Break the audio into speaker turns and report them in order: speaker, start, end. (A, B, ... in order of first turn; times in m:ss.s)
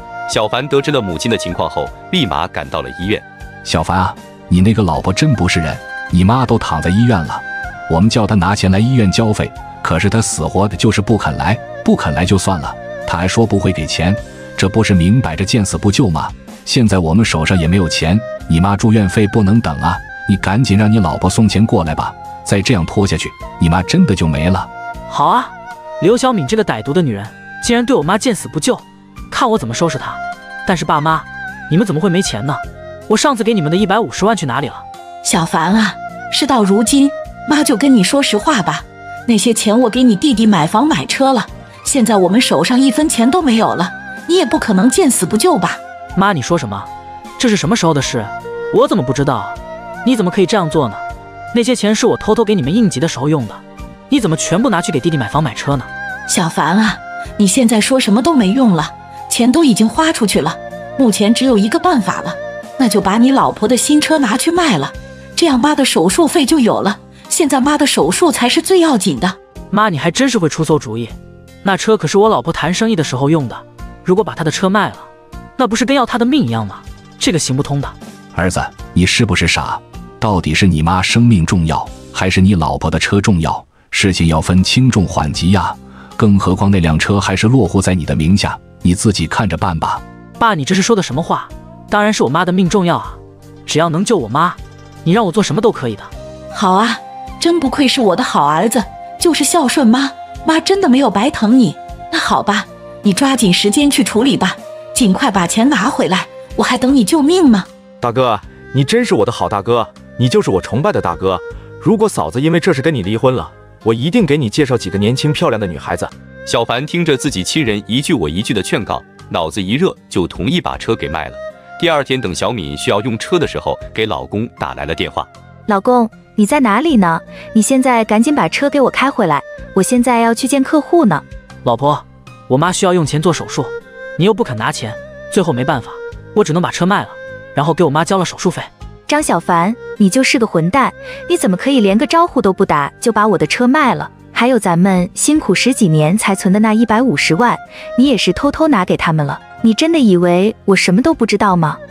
0:00.3-0:03.2 A
0:03.6-0:24.7 B
0:25.1-0:34.8 C
0:35.2-0:45.8 D
0:46.1-0:55.9 C
0:56.3-1:09.4 D
1:09.7-1:17.9 C
1:18.3-1:30.0 B
1:30.4-1:36.1 C
1:36.5-1:47.7 D
1:48.0-1:56.1 E
1:56.4-2:05.3 A
2:05.7-2:11.2 F
2:11.6-2:18.7 C
2:19.1-2:31.8 F